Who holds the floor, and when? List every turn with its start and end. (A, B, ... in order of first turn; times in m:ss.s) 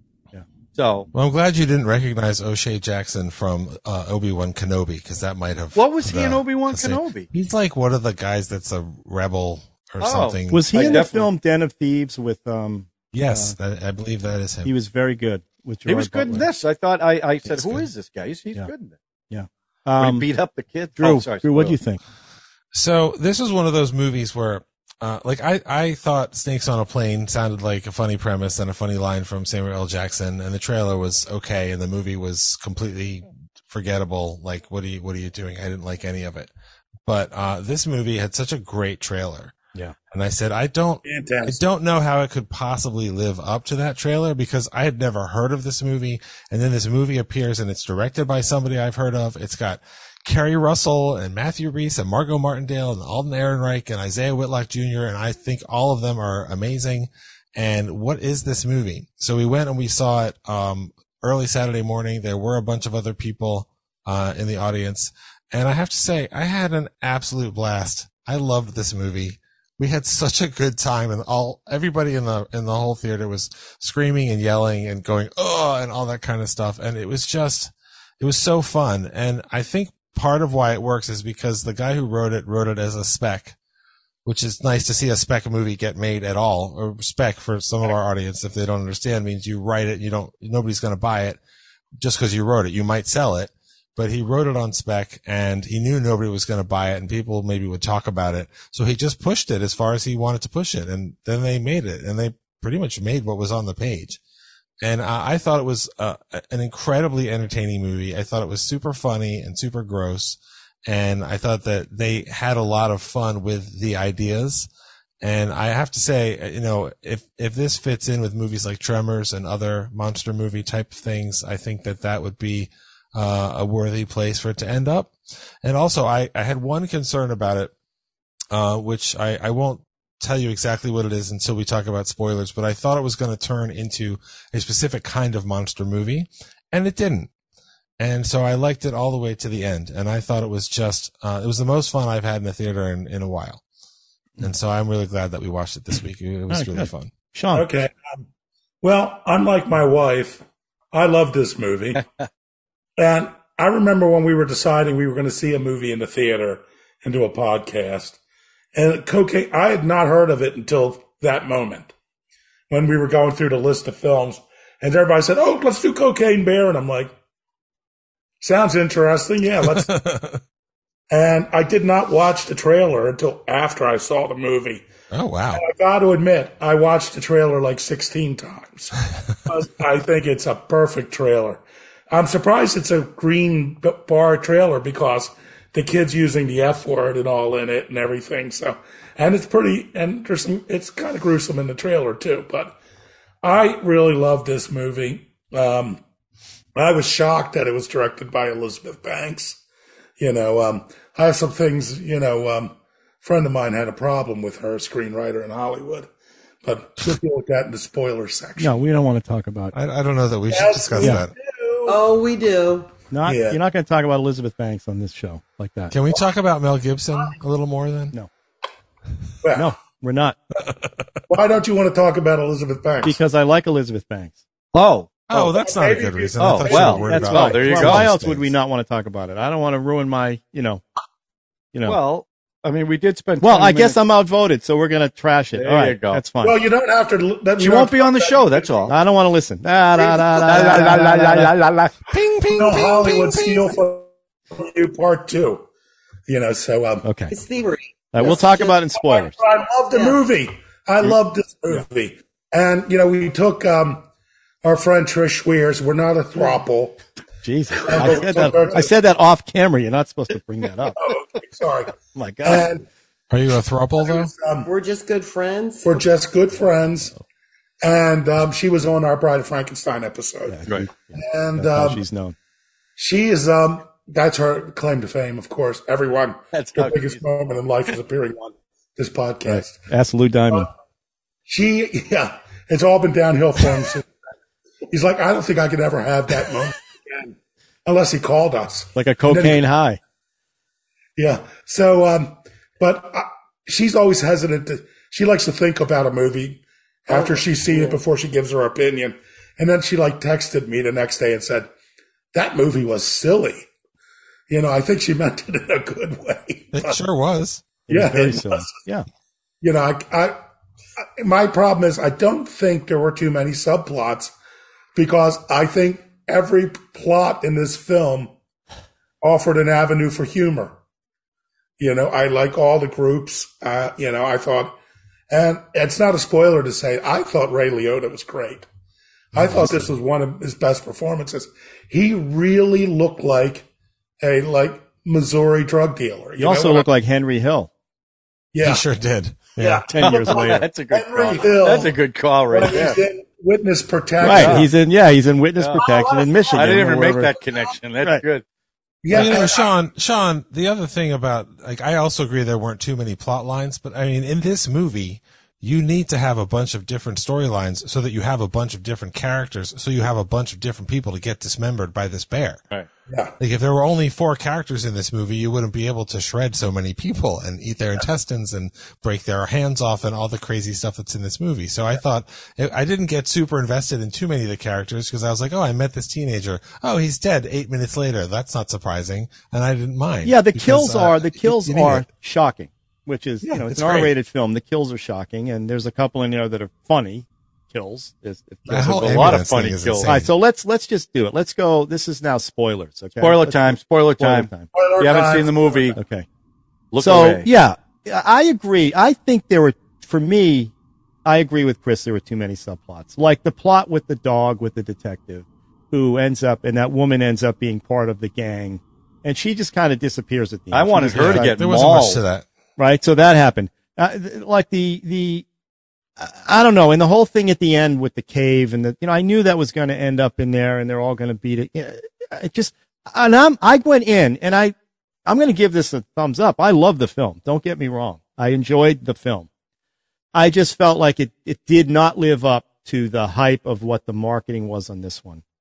0:00.7-0:01.1 A
0:01.1-0:11.0 B
0:05.7-0:07.3 A
0:10.0-0:11.3 A
0:10.5-0:13.5 C
0:13.1-0:14.7 B
0:14.6-0:16.5 C
0:15.8-0:19.0 A
0:19.3-0:20.2 C
0:20.0-0:21.8 A
0:21.0-0:22.0 C
0:22.7-0:36.5 B
0:37.0-0:39.6 B
0:40.1-1:23.6 B
0:41.0-0:41.6 D
1:24.2-1:31.4 B
1:32.0-1:44.2 B
1:44.8-1:54.7 B
1:55.2-2:07.7 B
2:08.5-2:17.3 B
2:18.0-2:23.6 B
2:24.4-2:27.1 B
2:26.5-2:27.7 C
2:27.5-2:28.2 D
2:28.8-2:32.0 D
2:33.0-2:38.2 D
2:38.7-2:41.9 D
2:42.7-2:47.1 D
2:48.4-2:49.9 D
2:49.6-2:50.4 B
2:51.1-2:54.8 D
2:55.1-2:55.6 B
2:55.5-3:12.8 D
3:13.4-3:16.0 D
3:16.8-3:19.6 D
3:20.2-3:26.1 D
3:26.6-3:28.8 D
3:28.6-3:29.7 C
3:29.7-3:31.3 B
3:30.5-3:32.0 D
3:31.8-3:32.9 E
3:33.1-3:35.9 C
3:33.2-3:33.6 D
3:35.9-3:38.1 B
3:39.4-3:39.7 D
3:39.5-3:40.4 C
3:41.3-3:43.2 D
3:43.0-3:44.4 C
3:44.7-3:45.5 A
3:45.3-3:48.5 B
3:45.4-3:47.4 D
3:46.4-3:48.1 A
3:47.1-3:50.8 C
3:51.7-3:52.0 C
3:51.8-3:54.0 A
3:53.4-3:56.6 C
3:55.5-3:56.2 A
3:56.4-3:59.0 D
3:57.6-3:58.9 A
3:58.9-4:01.5 C
4:00.0-4:00.9 D
4:00.4-4:01.9 A
4:02.1-4:03.7 B
4:02.5-4:05.6 D
4:06.3-4:07.1 D
4:07.0-4:07.3 C
4:07.3-4:08.7 E
4:08.1-4:09.4 C
4:09.0-4:14.0 D
4:09.9-4:10.2 E
4:14.6-4:17.0 D
4:17.4-4:21.0 C
4:17.8-4:18.9 D
4:21.0-4:22.8 D
4:22.1-4:22.7 C
4:23.3-4:24.3 B
4:24.0-4:24.7 D
4:24.6-4:26.0 E
4:25.8-4:27.1 D
4:27.8-4:30.6 D
4:30.5-4:32.3 C
4:31.1-4:32.0 D
4:33.0-4:39.8 D
4:36.5-4:37.2 A
4:39.4-4:40.7 C
4:41.5-4:44.1 D
4:44.9-4:47.3 D
4:47.8-4:49.6 D
4:48.9-4:50.0 C
4:51.2-5:01.7 D
4:57.1-4:58.0 E
5:02.3-5:03.7 D
5:04.5-5:07.0 D
5:06.7-5:07.8 B
5:07.9-5:09.0 C
5:07.9-5:08.7 D
5:09.6-5:10.4 D
5:11.2-5:14.3 D
5:14.9-5:18.3 D
5:19.2-5:20.8 D
5:21.8-5:24.7 D
5:25.3-5:28.7 D
5:29.3-5:33.6 D
5:29.4-5:29.9 B
5:34.2-5:36.8 D
5:36.4-5:37.7 C
5:38.5-5:38.8 D
5:38.6-5:39.9 B
5:39.6-5:42.0 D
5:39.9-5:40.7 C
5:40.0-5:43.0 A
5:42.5-5:44.7 D
5:44.2-5:47.4 C
5:44.2-5:44.7 A
5:45.8-5:46.7 E
5:46.5-5:48.4 A
5:49.0-5:49.7 D
5:49.1-6:02.6 B
6:03.1-6:03.4 D
6:03.4-6:22.0 B
6:20.2-6:29.4 C
6:23.4-6:24.1 B
6:28.7-6:30.1 A
6:28.7-6:30.3 B
6:30.0-6:34.7 C
6:33.2-6:36.0 A
6:34.7-6:36.0 D
6:36.0-6:36.2 C
6:36.9-6:37.5 A
6:37.0-6:40.7 C
6:41.2-6:51.6 C
6:50.7-6:52.2 A
6:51.1-6:52.4 B
6:52.8-6:55.4 C
6:56.2-7:04.7 C
7:05.2-7:09.5 C
7:10.3-7:15.4 C